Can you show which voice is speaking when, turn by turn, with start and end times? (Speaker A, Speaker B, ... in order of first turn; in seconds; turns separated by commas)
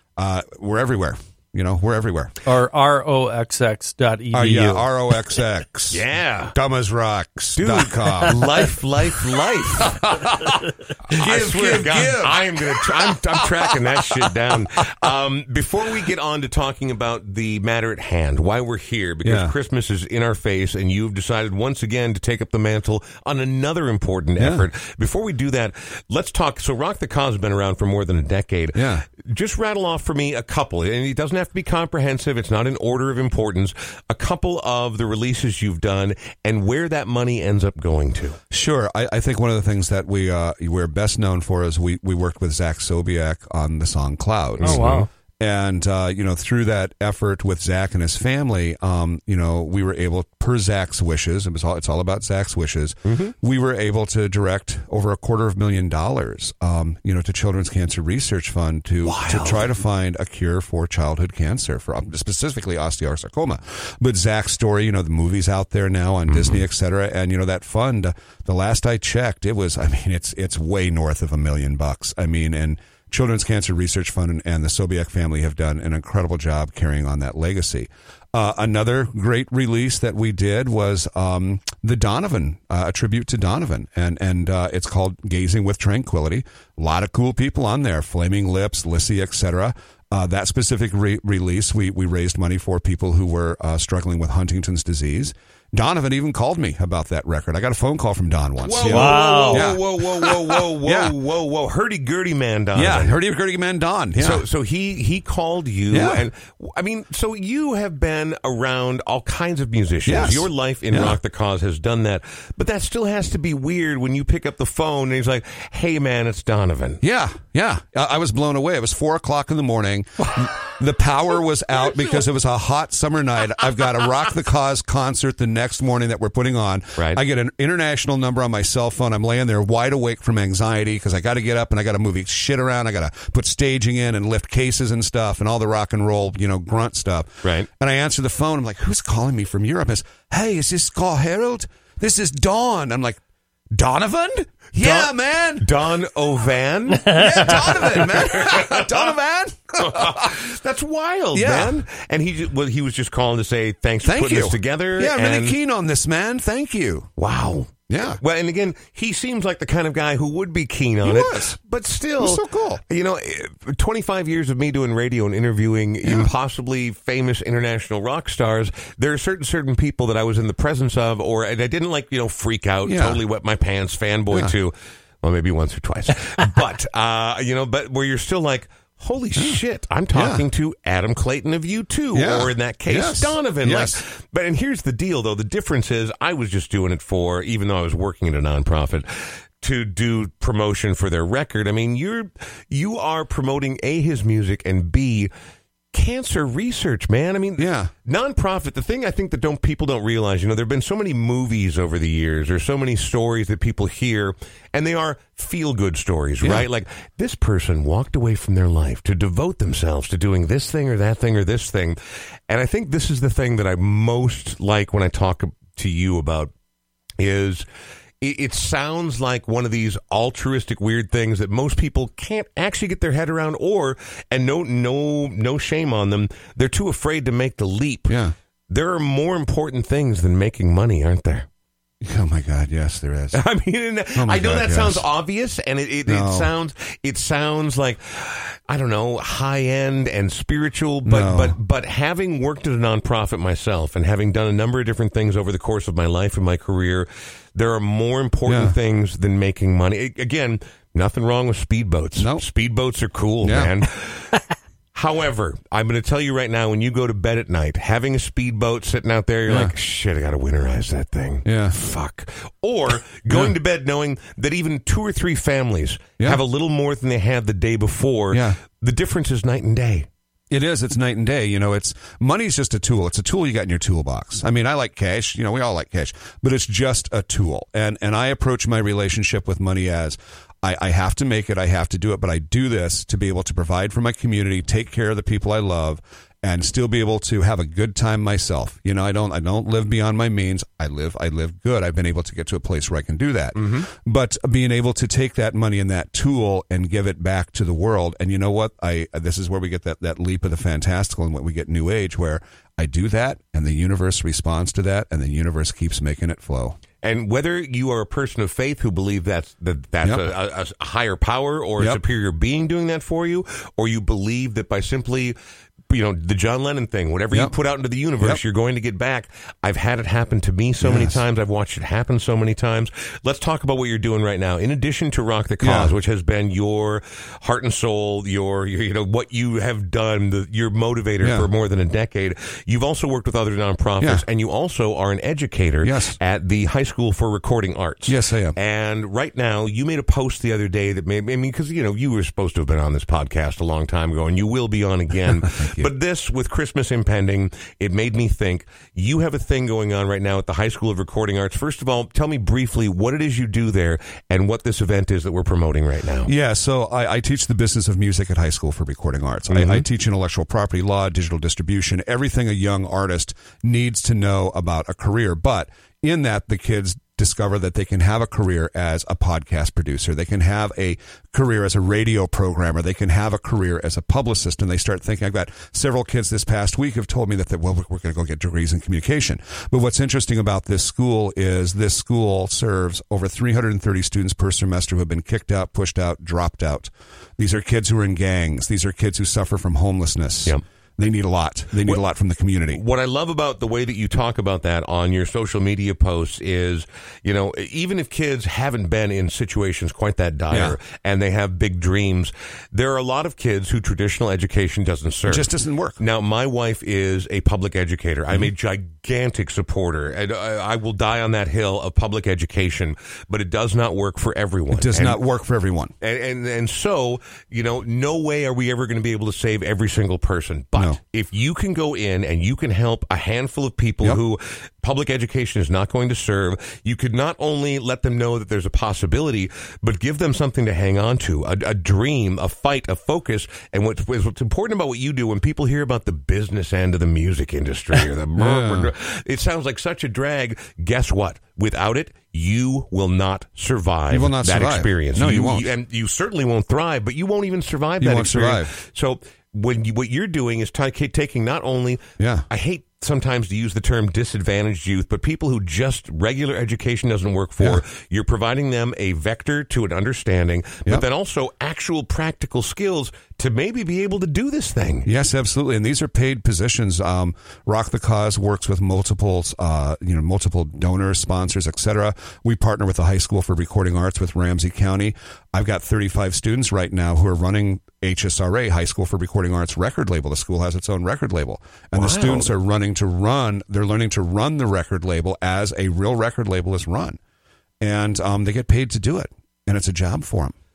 Speaker A: 0.2-2.4, Speaker B: 2.4-4.9, Speaker A: 4.3-8.7, Speaker C: 5.9-6.5, Speaker C: 7.6-10.2, Speaker A: 9.8-10.5, Speaker A: 11.1-13.6, Speaker C: 11.1-38.4, Speaker A: 19.2-19.5, Speaker A: 24.4-24.6, Speaker A: 28.7-29.0, Speaker A: 38.5-101.1, Speaker C: 44.6-45.1, Speaker B: 44.6-45.1, Speaker C: 53.0-53.3, Speaker C: 59.0-59.8, Speaker C: 66.3-66.6, Speaker C: 98.6-103.1, Speaker B: 98.8-99.7, Speaker A: 102.7-104.5, Speaker C: 104.2-117.0, Speaker A: 105.9-106.2, Speaker A: 110.0-111.2, Speaker A: 117.0-143.2, Speaker C: 127.0-127.2, Speaker A: 143.7-145.7, Speaker C: 144.8-149.1, Speaker A: 147.1-150.3, Speaker C: 149.8-155.5, Speaker A: 151.3-151.8, Speaker A: 154.0-157.1, Speaker C: 157.2-195.3, Speaker A: 157.9-158.2, Speaker A: 161.0-161.6, Speaker A: 162.2-162.8, Speaker A: 166.0-166.3, Speaker A: 172.8-173.2, Speaker A: 180.1-180.4, Speaker A: 182.1-184.0, Speaker C: 195.9-216.5, Speaker A: 197.6-197.9, Speaker A: 206.4-206.7, Speaker C: 217.2-217.6, Speaker C: 218.2-228.2, Speaker A: 228.1-228.3, Speaker C: 228.7-231.5, Speaker A: 232.0-233.4, Speaker C: 233.3-254.4, Speaker A: 234.2-235.0, Speaker A: 236.1-236.5, Speaker A: 241.1-241.6, Speaker A: 248.4-248.8, Speaker A: 252.2-252.4, Speaker A: 253.4-253.8, Speaker C: 254.9-270.1, Speaker A: 259.5-259.7, Speaker A: 261.4-261.8, Speaker A: 268.3-268.6, Speaker A: 270.5-306.8, Speaker C: 293.5-293.9, Speaker C: 307.0-315.4, Speaker A: 310.0-310.3, Speaker C: 315.9-356.3, Speaker A: 320.8-321.2, Speaker A: 325.6-325.9, Speaker A: 331.2-331.5, Speaker A: 335.8-336.2, Speaker A: 338.1-338.6, Speaker A: 345.4-345.9, Speaker A: 356.2-392.8, Speaker C: 359.5-359.8, Speaker C: 392.7-415.2, Speaker A: 400.5-400.8, Speaker A: 405.3-406.0, Speaker A: 414.7-415.9, Speaker C: 416.0-465.1, Speaker A: 438.4-438.9, Speaker A: 444.1-445.7, Speaker A: 448.0-448.7, Speaker A: 452.2-452.4, Speaker A: 465.0-487.2, Speaker C: 481.9-482.5, Speaker A: 487.8-490.5